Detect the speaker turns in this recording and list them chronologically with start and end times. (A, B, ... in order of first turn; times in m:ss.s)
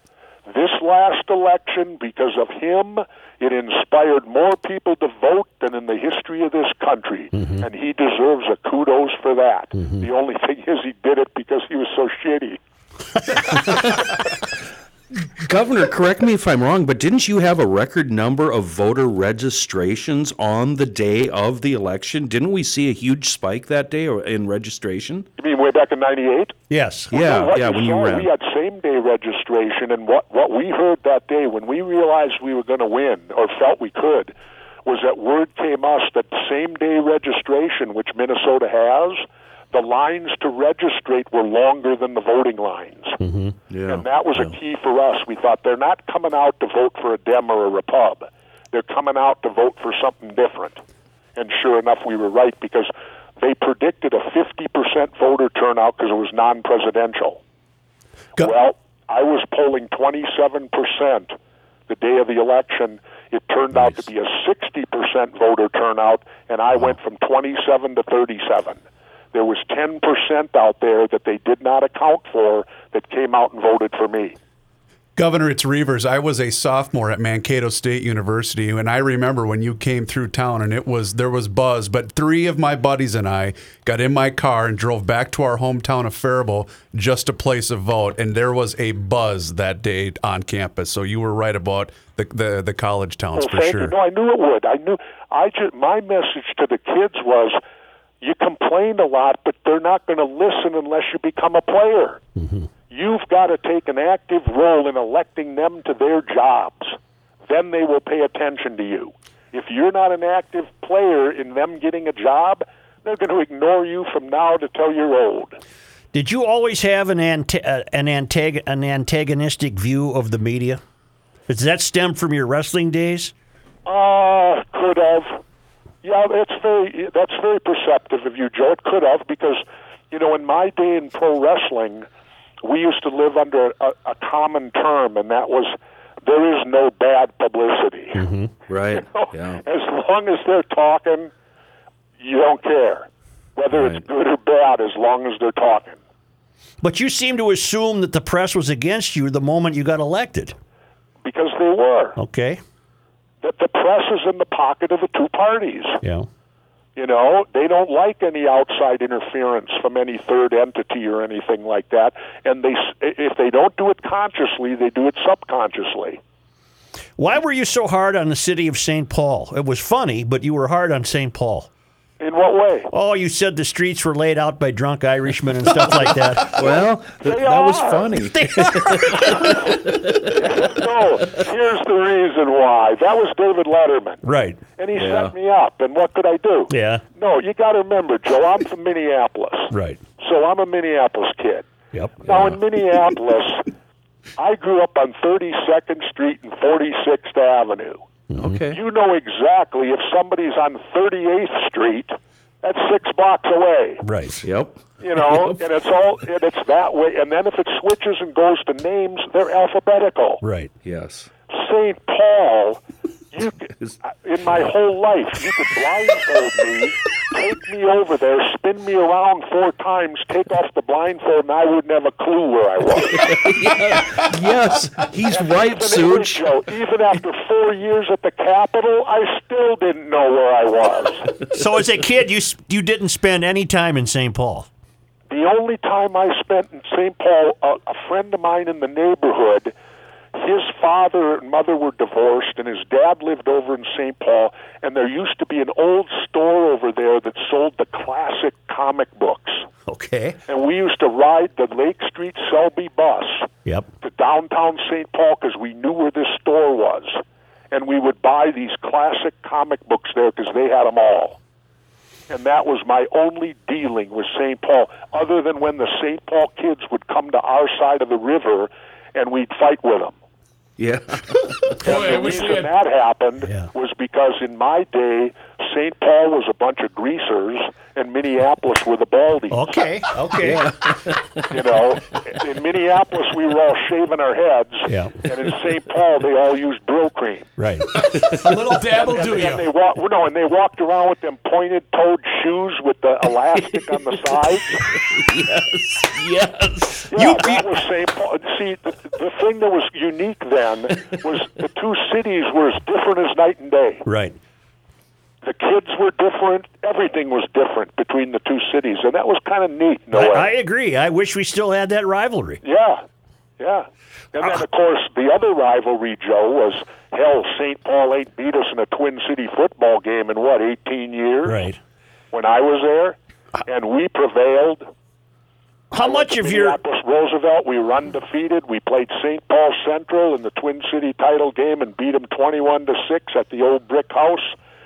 0:00.5-0:12.6 A
0:07.3-0:07.6 B
0:09.8-0:10.1 B
0:13.4-0:14.3 C
0:15.3-0:25.3 C
0:25.4-0:26.6 A
0:26.7-0:27.1 B
0:27.1-0:34.3 A
0:27.1-0:28.3 C
0:34.8-0:43.2 A
0:43.2-0:43.6 B
0:43.7-0:44.5 C
0:43.9-0:50.8 A
0:51.4-0:57.4 A
0:58.4-1:01.4 A
1:01.9-1:08.8 A
1:09.3-1:14.4 A
1:15.2-1:34.0 D
1:33.4-1:37.6 A
1:38.2-1:42.2 A
1:42.4-1:42.7 B
1:42.9-1:55.6 A
1:56.1-2:00.8 B
2:01.5-2:03.3 B
2:03.9-2:05.4 A
2:06.0-2:12.1 A
2:12.6-2:18.2 A
2:18.2-2:18.5 B
2:18.7-2:19.6 C
2:18.9-2:21.3 A
2:22.2-2:26.0 A
2:23.7-2:24.0 C
2:26.8-2:30.6 B
2:31.2-2:32.2 A
2:32.2-2:32.6 B
2:33.4-2:36.0 A
2:36.0-2:36.3 B
2:37.0-2:46.2 A
2:47.2-2:51.7 B
2:52.2-2:52.9 A
2:52.9-2:56.6 B
2:56.4-3:00.7 C
2:56.6-2:58.1 A
2:58.3-2:59.6 B
3:00.3-3:04.2 A
3:04.2-3:04.6 B
3:04.8-3:11.7 A
3:05.0-3:05.4 C
3:06.7-3:07.0 B
3:09.7-3:10.0 B
3:11.9-3:12.2 B
3:12.2-3:13.7 A
3:12.2-3:12.6 C
3:14.4-3:18.0 A
3:18.3-3:18.6 B
3:18.4-3:18.8 C
3:18.7-3:24.0 A
3:24.0-3:24.4 B
3:24.4-3:25.6 C
3:25.0-3:30.4 A
3:30.4-3:30.7 B
3:30.8-3:31.3 C
3:31.5-3:32.8 A
3:33.3-3:43.4 A
3:43.1-3:46.5 C
3:45.3-3:51.3 A
3:51.5-3:54.7 B
3:55.3-3:59.7 A
4:00.3-4:09.7 A
4:09.9-4:10.4 B
4:10.5-4:13.5 A
4:14.0-4:21.4 A
4:22.3-4:30.2 A
4:30.8-4:31.8 C
4:31.8-4:39.8 A
4:31.8-4:32.7 E
4:33.4-4:33.7 B
4:39.5-4:40.7 B
4:40.4-4:41.5 C
4:41.5-4:47.5 A
4:44.9-4:45.2 B
4:47.6-4:48.0 B
4:48.1-4:49.6 E
4:49.1-4:54.8 A
4:53.7-4:54.3 C
4:54.9-4:57.1 C
4:56.8-4:57.7 B
4:57.1-5:04.1 A
5:04.1-5:04.4 B
5:05.4-5:10.5 A
5:10.1-5:12.6 B
5:12.6-5:13.0 A
5:13.6-5:21.6 A
5:21.5-5:21.8 B
5:22.3-5:24.9 A
5:25.9-5:26.8 B
5:26.0-5:34.6 A